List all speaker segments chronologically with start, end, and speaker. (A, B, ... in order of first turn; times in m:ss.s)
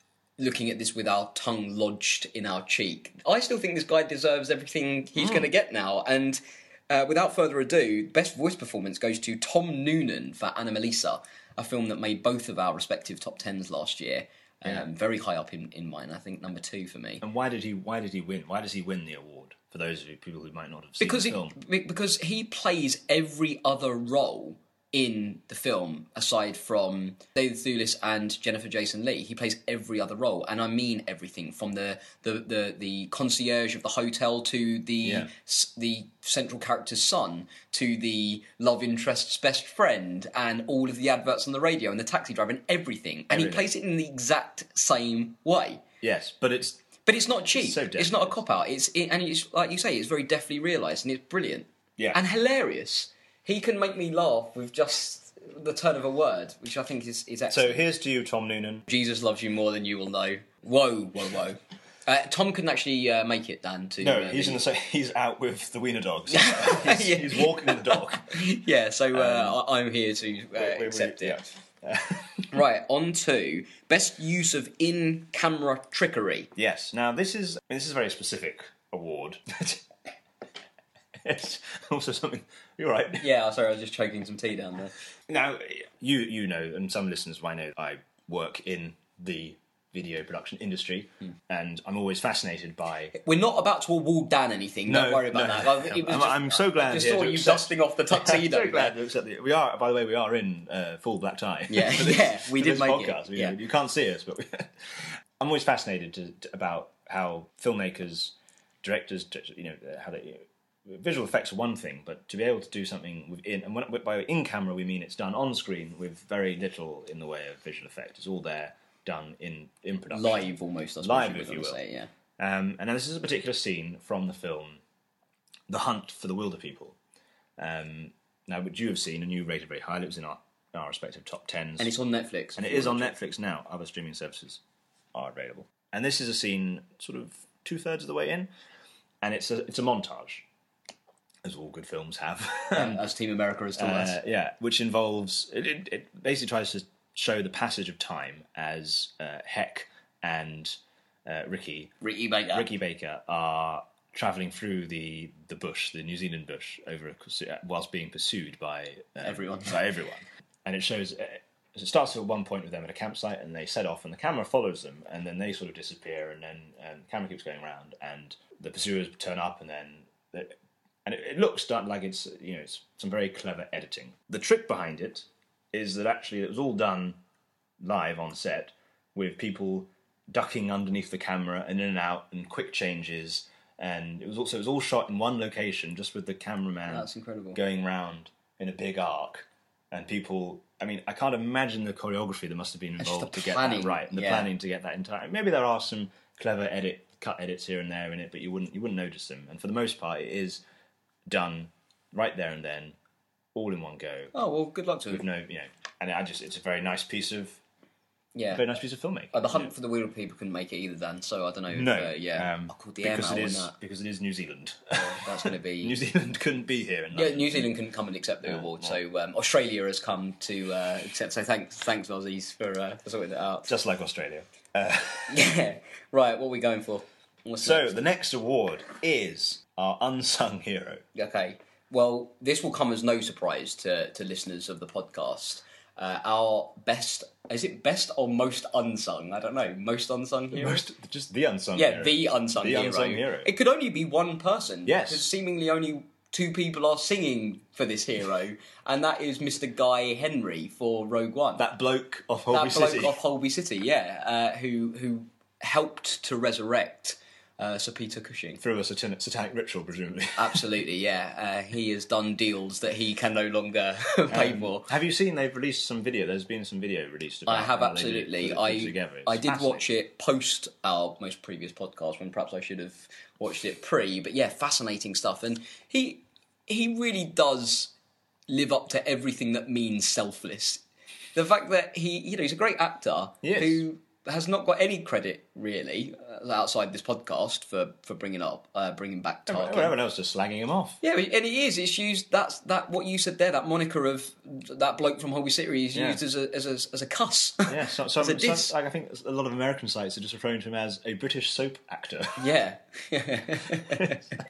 0:00.4-0:17.2 A
0:05.2-0:05.5 B
0:17.2-0:21.6 B
0:21.0-0:45.8 A
0:35.0-0:35.3 B
0:43.3-0:43.7 B
0:46.0-0:46.8 B
0:47.0-0:57.8 A
0:47.5-0:48.4 B
0:57.5-0:58.9 B
0:58.9-1:04.6 A
1:04.0-1:08.4 B
1:06.3-1:11.4 A
1:09.1-1:09.6 B
1:10.5-1:12.4 B
1:12.5-1:16.5 A
1:16.6-1:19.8 B
1:21.2-1:23.2 B
1:23.2-1:24.9 A
1:25.3-1:33.2 B
1:33.2-1:39.0 A
1:34.9-2:00.5 B
1:41.7-1:43.6 A
2:00.1-2:02.1 A
2:01.0-2:01.8 B
2:02.4-2:04.8 B
2:05.7-2:07.0 B
2:07.6-2:11.9 B
2:11.8-2:13.1 A
2:12.6-2:14.6 B
2:15.1-2:18.5 B
2:19.2-2:20.4 B
2:21.4-2:23.0 B
2:22.7-2:24.2 A
2:23.8-2:32.0 B
2:32.0-2:32.7 A
2:32.5-2:57.2 B
2:39.2-2:39.8 A
2:57.8-3:20.6 B
3:06.9-3:07.6 A
3:13.0-3:14.5 A
3:21.3-3:23.0 B
3:23.5-3:24.3 B
3:24.3-3:25.2 A
3:25.1-3:27.6 B
3:28.4-3:28.6 A
3:28.5-3:29.7 B
3:29.3-3:33.8 A
3:31.7-3:37.7 B
3:34.9-3:36.0 A
3:37.1-3:43.7 A
3:38.4-3:39.0 B
3:43.7-3:45.4 B
3:45.3-3:48.0 A
3:47.6-3:51.0 B
3:51.2-4:00.8 A
4:00.5-4:03.5 B
4:01.8-4:11.6 A
4:04.9-4:05.3 B
4:11.6-4:13.2 B
4:12.5-4:18.6 A
4:18.6-4:20.6 B
4:20.4-4:24.9 A
4:24.3-4:29.8 B
4:27.5-4:37.9 A
4:38.5-4:40.8 A
4:41.4-4:50.0 A
4:43.4-4:43.8 B
4:49.5-4:51.0 B
4:51.0-4:58.7 A
4:55.9-4:56.2 B
4:57.7-5:02.4 B
5:02.4-5:04.3 A